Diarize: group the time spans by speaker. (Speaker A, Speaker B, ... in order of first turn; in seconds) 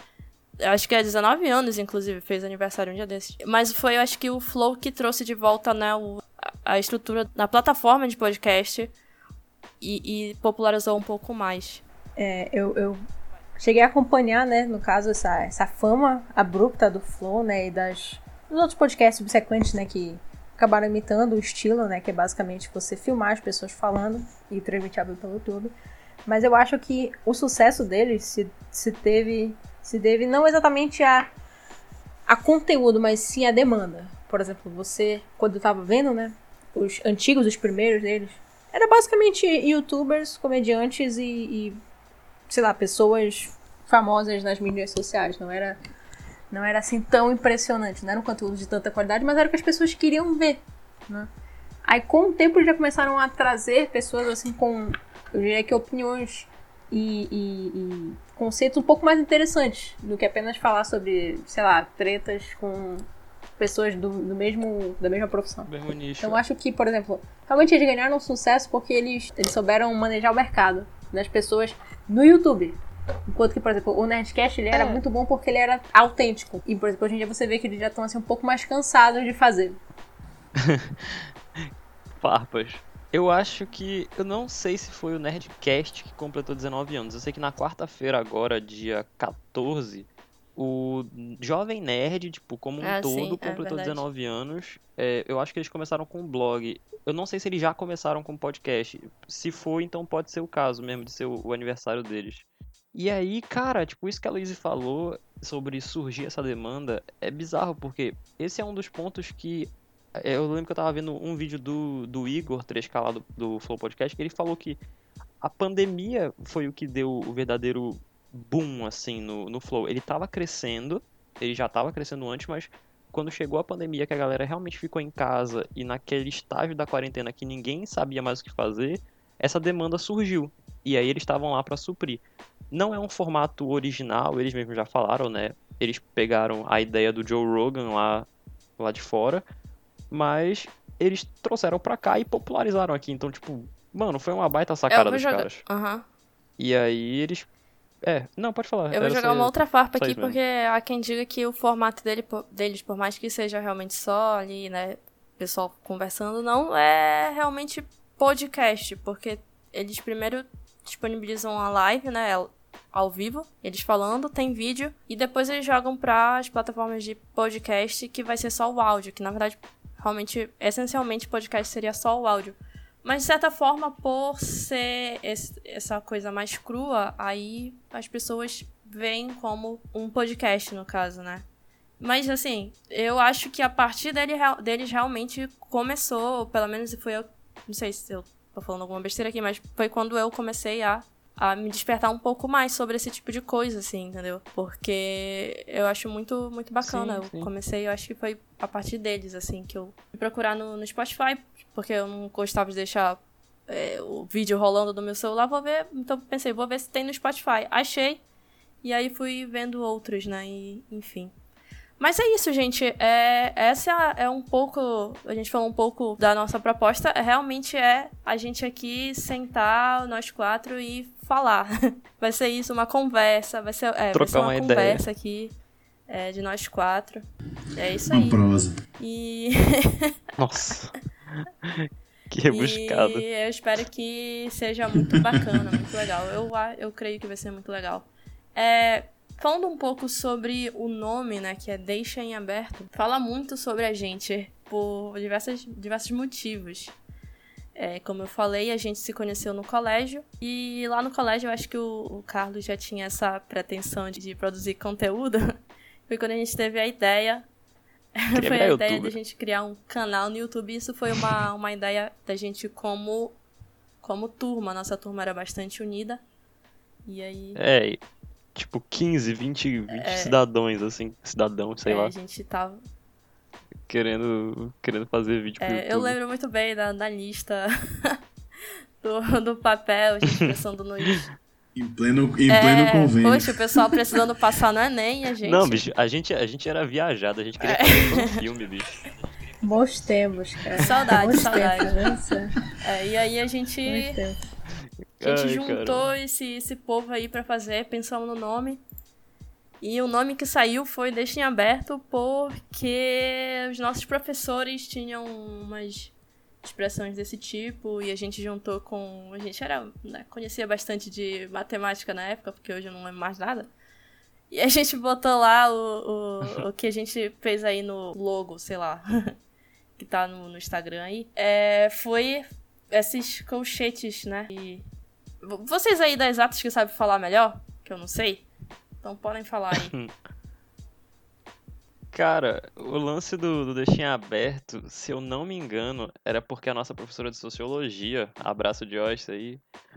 Speaker A: 0.6-8.9, 9.8-11.8, 92.8-94.0, 144.9-146.0, 148.9-181.4, 182.0-208.2, 208.8-211.3, 212.0-225.5, 226.1-227.2, 227.8-228.4, 229.0-230.1, 232.5-246.9, 247.8-255.6, 256.1-257.4, 258.2-263.4, 264.0-266.2, 267.1-267.6, 269.9-270.4, 271.9-272.8, 275.6-278.2, 279.0-281.2, 282.5-285.8, 287.6-288.4, 290.8-291.9, 292.8-294.2, 295.2-298.8, 299.8-313.7, 314.5-319.3, 320.0-324.8, 325.4-328.4, 329.0-329.9
Speaker B: 12.2-13.0, 13.6-25.7, 26.2-31.3, 32.3-41.8, 42.5-45.8, 46.5-51.3, 51.8-63.0, 63.6-72.8, 73.3-79.8, 289.6-292.5, 293.9-294.4
Speaker C: 65.7-66.4, 80.6-81.3, 82.2-114.8, 115.4-138.3, 138.8-139.4, 140.1-145.6, 146.6-147.5, 148.0-150.4, 196.8-197.5, 224.1-225.0, 230.4-231.0, 231.6-233.2, 258.3-259.1, 267.6-268.0, 268.5-272.1, 273.9-276.2, 285.4-289.0, 295.2-296.1, 329.7-330.1, 332.1-339.6
Speaker D: 228.1-228.8, 281.8-283.9